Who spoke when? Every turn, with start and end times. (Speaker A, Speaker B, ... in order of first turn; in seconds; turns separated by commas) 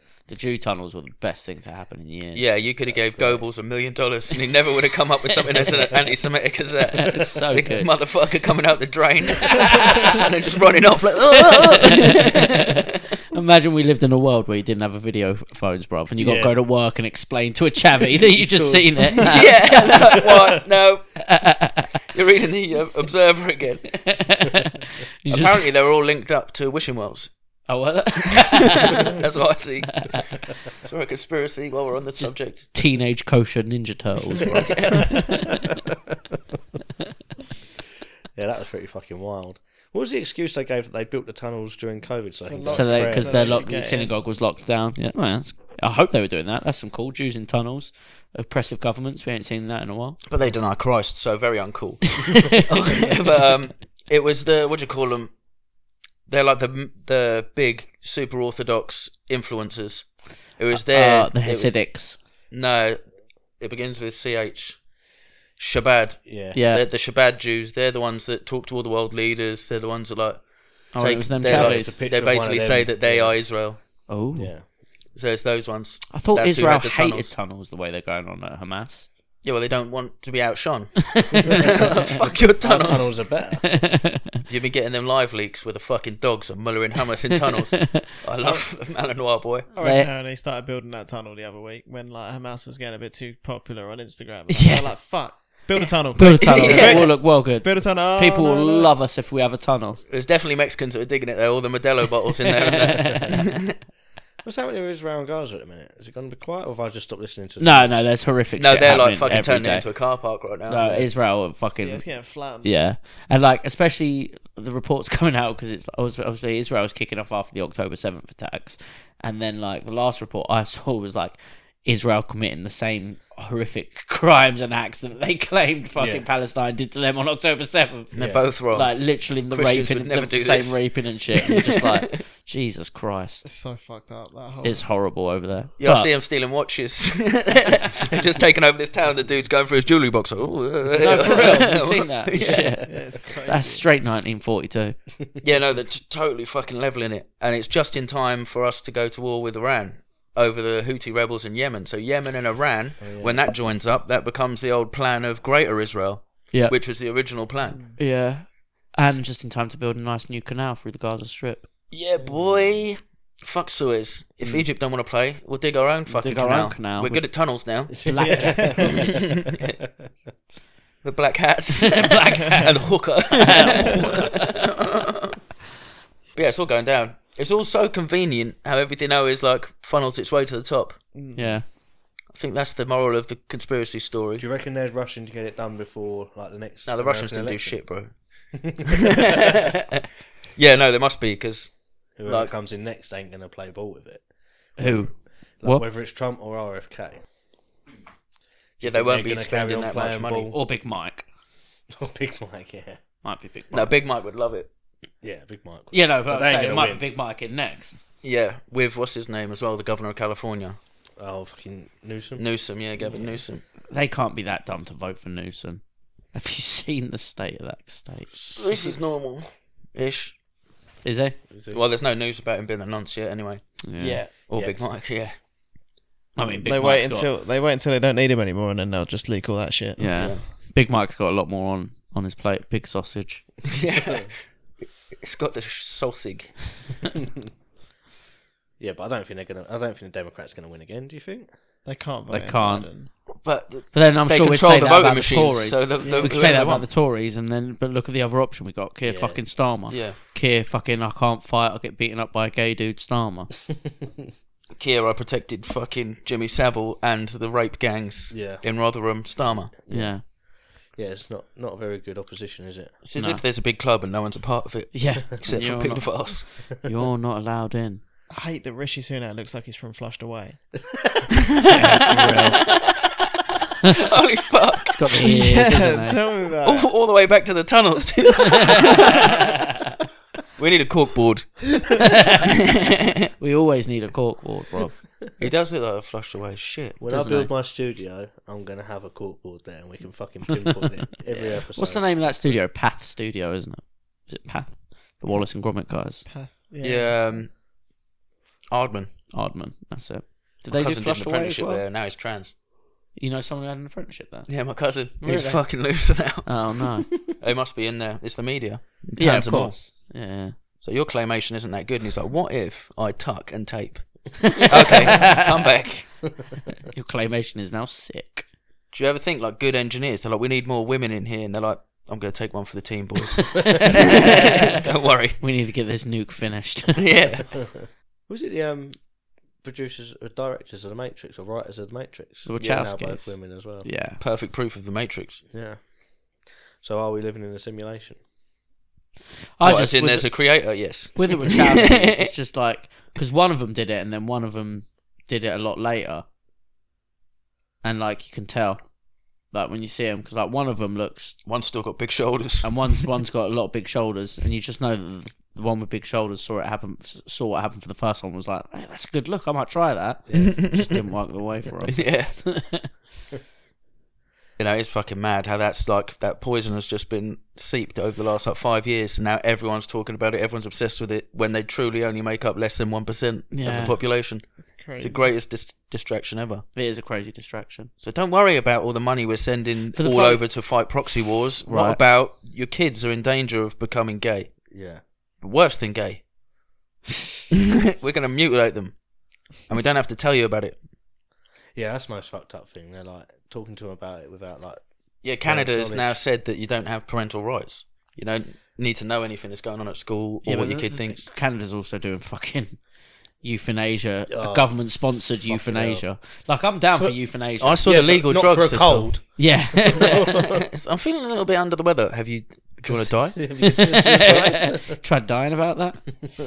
Speaker A: 0.3-2.5, Speaker B: 2.3-12.4, Speaker C: 2.9-3.5, Speaker A: 6.9-7.9, Speaker A: 9.4-10.1, Speaker A: 11.5-12.7, Speaker A: 13.3-20.3, Speaker C: 16.2-16.6, Speaker C: 18.0-19.3, Speaker B: 19.2-21.2, Speaker A: 21.2-21.9, Speaker B: 22.1-24.0, Speaker A: 23.9-25.6, Speaker B: 25.3-27.3, Speaker A: 27.7-29.1, Speaker B: 28.5-32.7, Speaker A: 29.9-30.2, Speaker A: 32.2-35.6, Speaker B: 34.5-35.2, Speaker C: 38.3-43.7, Speaker D: 42.5-44.1, Speaker A: 42.7-50.2, Speaker B: 50.3-55.3, Speaker B: 56.3-63.0, Speaker A: 60.7-62.2, Speaker B: 63.6-64.8, Speaker B: 65.6-73.8, Speaker C: 66.2-66.6, Speaker A: 66.5-66.8, Speaker A: 70.9-72.0, Speaker C: 71.4-74.7, Speaker A: 74.1-74.5, Speaker B: 75.1-77.3, Speaker A: 76.1-79.1, Speaker B: 79.4-83.2, Speaker A: 81.1-81.9, Speaker C: 81.5-83.6, Speaker A: 83.6-84.4, Speaker B: 84.5-89.7, Speaker A: 87.5-88.0, Speaker D: 89.7-98.9, Speaker A: 89.8-90.1, Speaker A: 94.5-100.0, Speaker B: 96.4-97.2, Speaker B: 100.1-103.7, Speaker A: 102.5-103.4, Speaker C: 104.4-108.1, Speaker A: 107.6-109.9, Speaker B: 108.6-110.9, Speaker A: 110.7-133.5, Speaker D: 111.8-112.7, Speaker C: 126.0-126.2, Speaker B: 128.1-132.0, Speaker C: 128.1-128.5, Speaker D: 133.4-134.9, Speaker A: 134.6-136.1, Speaker B: 135.8-142.8, Speaker A: 140.9-145.0, Speaker D: 142.8-143.8, Speaker B: 145.4-157.9, Speaker C: 153.0-153.4, Speaker D: 157.7-158.0, Speaker A: 158.0-161.7, Speaker B: 161.9-168.1, Speaker C: 162.2-162.8, Speaker A: 166.1-167.3, Speaker C: 168.0-169.4, Speaker A: 168.0-169.0, Speaker D: 168.2-169.1, Speaker B: 169.1-169.7, Speaker B: 171.0-175.3, Speaker A: 171.8-174.5, Speaker B: 176.3-181.0, Speaker D: 181.1-181.6, Speaker A: 181.3-181.7, Speaker B: 182.3-184.4, Speaker C: 184.4-188.0, Speaker B: 186.8-189.8, Speaker B: 190.5-192.5, Speaker C: 192.2-194.2, Speaker A: 194.8-195.8, Speaker C: 194.8-197.2, Speaker C: 198.8-200.6, Speaker B: 198.8-200.5, Speaker A: 200.5-201.2, Speaker C: 201.9-203.0, Speaker A: 203.2-203.9, Speaker B: 203.7-204.7, Speaker C: 205.2-207.0, Speaker A: 205.9-208.0, Speaker B: 208.2-210.8, Speaker C: 211.2-212.4, Speaker B: 212.4-213.6, Speaker A: 213.9-218.3, Speaker C: 218.3-219.0, Speaker B: 218.5-220.3, Speaker A: 221.0-221.4, Speaker C: 221.5-221.8, Speaker B: 221.7-225.3, Speaker A: 223.8-224.2, Speaker D: 224.0-224.3, Speaker C: 224.5-224.9, Speaker A: 226.3-227.3, Speaker D: 226.6-230.2, Speaker A: 230.0-233.4, Speaker B: 230.1-230.4, Speaker B: 233.7-236.8, Speaker C: 238.8-241.5, Speaker D: 241.8-243.1, Speaker A: 242.3-242.9, Speaker B: 243.3-246.9, Speaker A: 243.9-253.5, Speaker D: 246.0-246.3, Speaker C: 249.0-249.4, Speaker B: 249.9-250.2, Speaker B: 254.7-259.7, Speaker C: 258.3-258.6, Speaker C: 259.8-262.9, Speaker A: 259.9-260.2, Speaker B: 263.0-266.5, Speaker A: 263.1-263.4, Speaker A: 264.9-268.0, Speaker D: 268.3-270.6, Speaker C: 271.2-272.7, Speaker B: 271.6-272.0, Speaker A: 271.6-272.7, Speaker B: 273.9-275.2, Speaker A: 274.9-276.2, Speaker D: 275.2-276.9, Speaker B: 276.6-279.4, Speaker B: 280.6-282.1, Speaker A: 282.0-282.4, Speaker B: 282.7-283.1, Speaker A: 283.4-285.0, Speaker B: 285.4-287.0, Speaker C: 287.0-292.1, Speaker A: 287.0-287.5, Speaker A: 291.3-296.2, Speaker D: 296.2-297.4, Speaker B: 296.8-297.5, Speaker B: 298.7-299.1, Speaker A: 299.3-301.8, Speaker B: 300.7-302.5, Speaker A: 303.1-307.1, Speaker B: 304.5-309.8, Speaker A: 309.1-310.6, Speaker B: 310.8-316.3, Speaker A: 314.5-315.5, Speaker A: 316.9-318.5, Speaker B: 318.9-325.4, Speaker A: 323.7-324.7, Speaker A: 325.4-327.1, Speaker B: 326.9-327.6, Speaker C: 327.5-333.9, Speaker A: 332.4-334.2, Speaker B: 334.2-335.4, Speaker C: 335.5-338.2, Speaker A: 339.6-346.2, Speaker B: 339.6-342.3, Speaker A: 347.8-348.9, Speaker A: 349.5-351.4, Speaker B: 351.4-352.7, Speaker A: 352.6-362.9, Speaker C: 360.3-360.9, Speaker B: 360.3-360.9, Speaker B: 361.9-362.3, Speaker B: 364.6-376.6, Speaker A: 373.5-374.0, Speaker D: 374.6-375.3, Speaker A: 376.7-377.9, Speaker B: 378.0-384.6, Speaker A: 379.9-380.4, Speaker A: 381.6-382.0, Speaker C: 384.7-385.0, Speaker B: 385.4-386.2, Speaker B: 387.5-389.0, Speaker B: 389.6-390.8, Speaker C: 391.7-394.8, Speaker B: 395.2-401.2, Speaker C: 395.4-396.2, Speaker A: 400.4-402.8, Speaker A: 403.4-407.8, Speaker C: 404.3-406.1, Speaker B: 407.6-409.3, Speaker C: 407.8-410.6, Speaker A: 409.4-410.3, Speaker B: 410.7-414.6, Speaker C: 412.8-415.0, Speaker A: 413.4-416.1